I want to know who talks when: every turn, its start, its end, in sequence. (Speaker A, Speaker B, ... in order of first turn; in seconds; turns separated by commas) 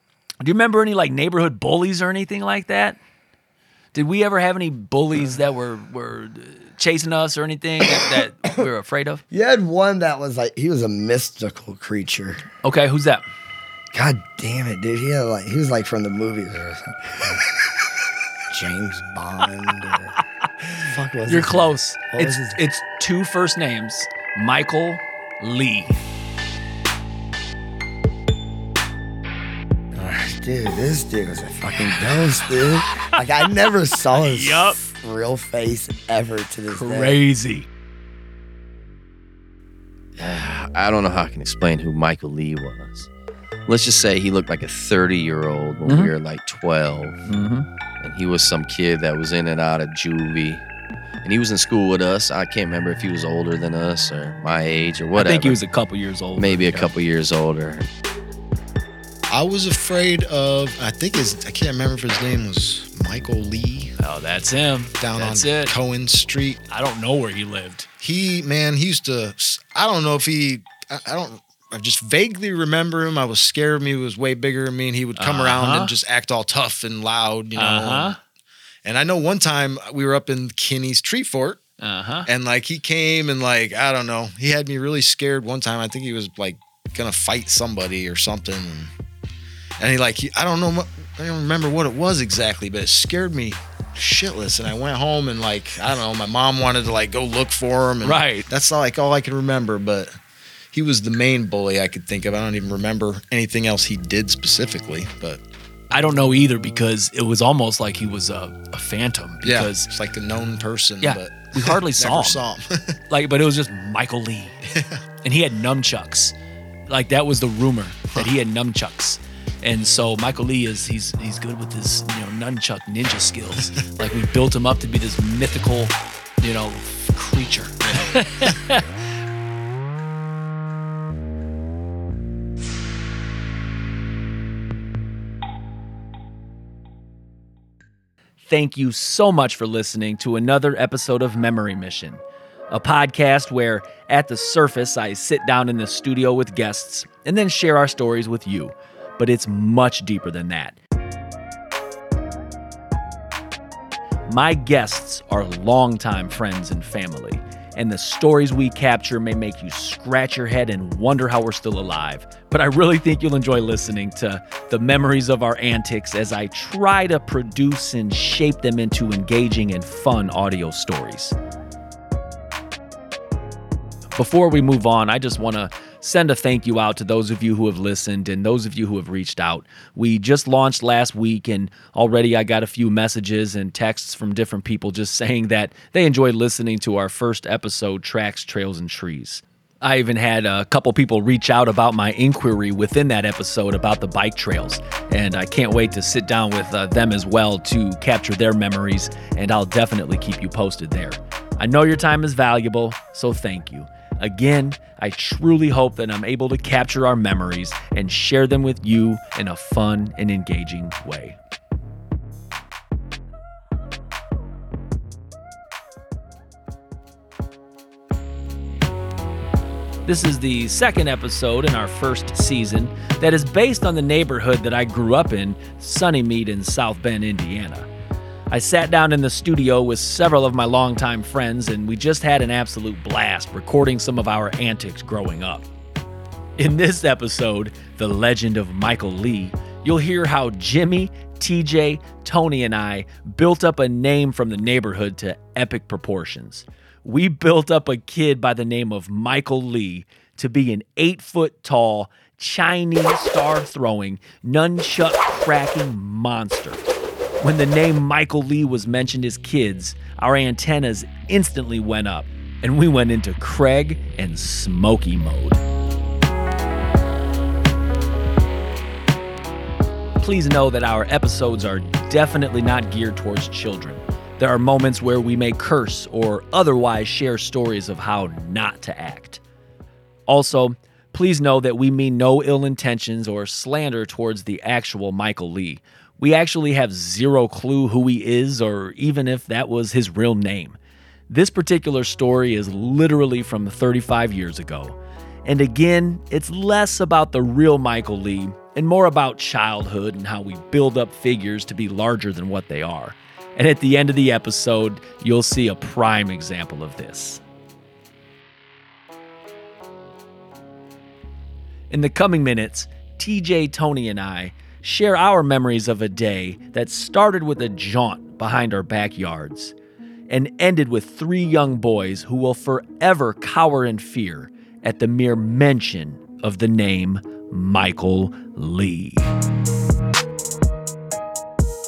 Speaker A: 0.4-3.0, Speaker A: 3.9-9.2, Speaker B: 7.8-8.2, Speaker B: 9.3-12.4, Speaker A: 12.6-13.2, Speaker B: 13.9-17.7, Speaker B: 18.5-20.1, Speaker B: 20.7-22.6, Speaker A: 21.3-26.0, Speaker B: 29.9-37.2, Speaker A: 34.1-34.8, Speaker A: 36.7-37.7, Speaker C: 40.2-43.1, Speaker C: 43.7-47.2, Speaker A: 45.9-46.1, Speaker A: 47.3-47.6, Speaker C: 48.0-50.6, Speaker C: 51.2-55.6, Speaker A: 55.1-56.9, Speaker C: 56.4-57.9, Speaker D: 59.3-63.9, Speaker A: 64.0-65.7, Speaker D: 65.0-66.6, Speaker A: 66.7-67.9, Speaker D: 68.0-78.2, Speaker A: 75.2-75.9, Speaker A: 77.5-78.2, Speaker D: 78.8-81.6, Speaker A: 81.8-82.3, Speaker D: 82.2-88.9, Speaker D: 89.8-100.1, Speaker A: 98.0-98.5, Speaker D: 100.7-105.4, Speaker A: 105.9-109.9, Speaker D: 109.4-113.0, Speaker A: 111.0-112.4, Speaker A: 113.1-114.5, Speaker A: 115.2-116.3, Speaker A: 116.9-128.8, Speaker A: 138.4-150.8, Speaker A: 154.3-171.3, Speaker A: 174.2-211.4, Speaker A: 220.1-227.9, Speaker A: 228.5-235.7, Speaker A: 236.6-256.8, Speaker A: 257.4-265.6, Speaker A: 270.2-279.4, Speaker A: 280.3-290.8, Speaker A: 291.3-307.4, Speaker A: 311.9-319.7, Speaker A: 320.3-329.3